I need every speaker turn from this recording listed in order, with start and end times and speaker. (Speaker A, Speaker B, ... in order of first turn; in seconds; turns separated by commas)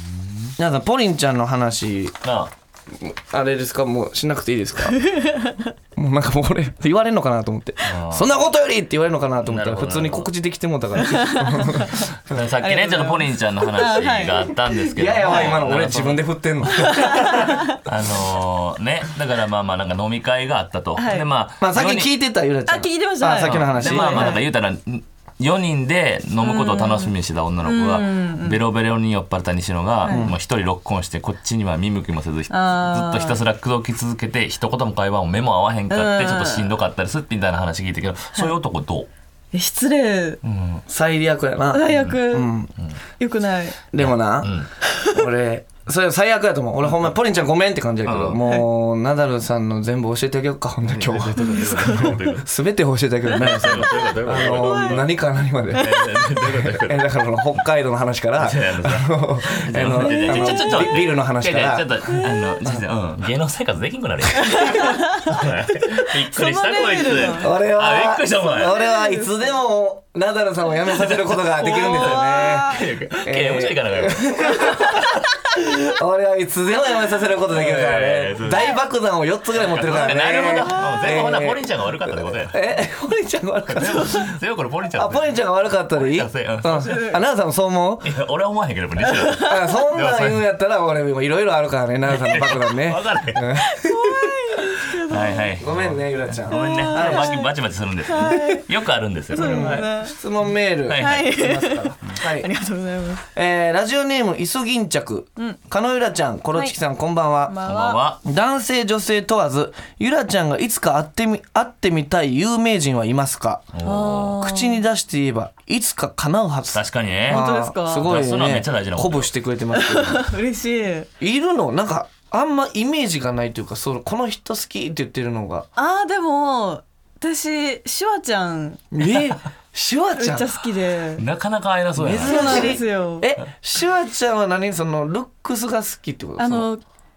Speaker A: 0.6-2.2, Speaker B: 2.2-2.5, Speaker A: 2.9-5.0, Speaker C: 5.0-5.6, Speaker A: 6.0-12.1, Speaker B: 7.8-8.3, Speaker B: 9.4-10.3, Speaker C: 11.0-12.0, Speaker B: 11.9-16.2, Speaker C: 12.6-14.5, Speaker A: 14.9-17.4, Speaker C: 16.9-17.8, Speaker B: 17.4-22.1, Speaker C: 21.0-21.3, Speaker A: 21.6-24.4, Speaker C: 22.7-24.4, Speaker B: 23.4-39.1, Speaker C: 26.4-27.1, Speaker C: 27.6-28.6, Speaker C: 30.0-30.3, Speaker A: 30.1-30.4, Speaker C: 32.5-33.4, Speaker C: 35.9-36.7, Speaker C: 39.5-40.4, Speaker B: 40.5-40.8, Speaker A: 40.9-42.7, Speaker C: 41.7-42.5, Speaker C: 43.2-43.8, Speaker A: 43.9-61.9, Speaker B: 44.0-44.7, Speaker B: 48.1-48.4, Speaker B: 50.9-52.5, Speaker C: 51.6-52.2, Speaker B: 53.2-55.1, Speaker C: 54.6-55.0, Speaker B: 55.7-57.1, Speaker B: 58.4-68.7, Speaker C: 60.0-60.6, Speaker C: 64.4-65.1, Speaker C: 66.0-67.5, Speaker A: 67.4-84.4, Speaker C: 68.6-69.5, Speaker B: 70.9-75.2, Speaker C: 71.6-72.8, Speaker B: 77.5-78.7, Speaker B: 79.5-82.6, Speaker B: 83.7-85.4, Speaker A: 85.0-88.1, Speaker B: 85.9-87.1, Speaker C: 86.9-87.2, Speaker B: 88.0-90.4, Speaker A: 89.4-94.0, Speaker B: 92.1-93.5, Speaker C: 93.6-95.5, Speaker B: 95.1-99.9, Speaker A: 95.6-97.4, Speaker C: 96.5-97.5, Speaker C: 98.0-98.7, Speaker C: 99.3-100.2, Speaker A: 99.4-102.5, Speaker B: 100.9-101.4, Speaker C: 101.0-103.2, Speaker A: 103.3-107.6, Speaker C: 107.5-108.0, Speaker B: 107.7-108.2, Speaker A: 108.2-113.8, Speaker B: 113.7-114.3, Speaker C: 113.8-114.8, Speaker A: 114.3-120.3, Speaker B: 116.7-119.3, Speaker C: 117.3-118.1, Speaker C: 119.7-121.1, Speaker A: 121.2-125.7, Speaker C: 125.8-128.9, Speaker A: 128.9-130.5, Speaker C: 130.2-131.2, Speaker B: 131.2-132.8, Speaker A: 132.0-136.7, Speaker C: 132.2-133.3, Speaker C: 136.4-136.8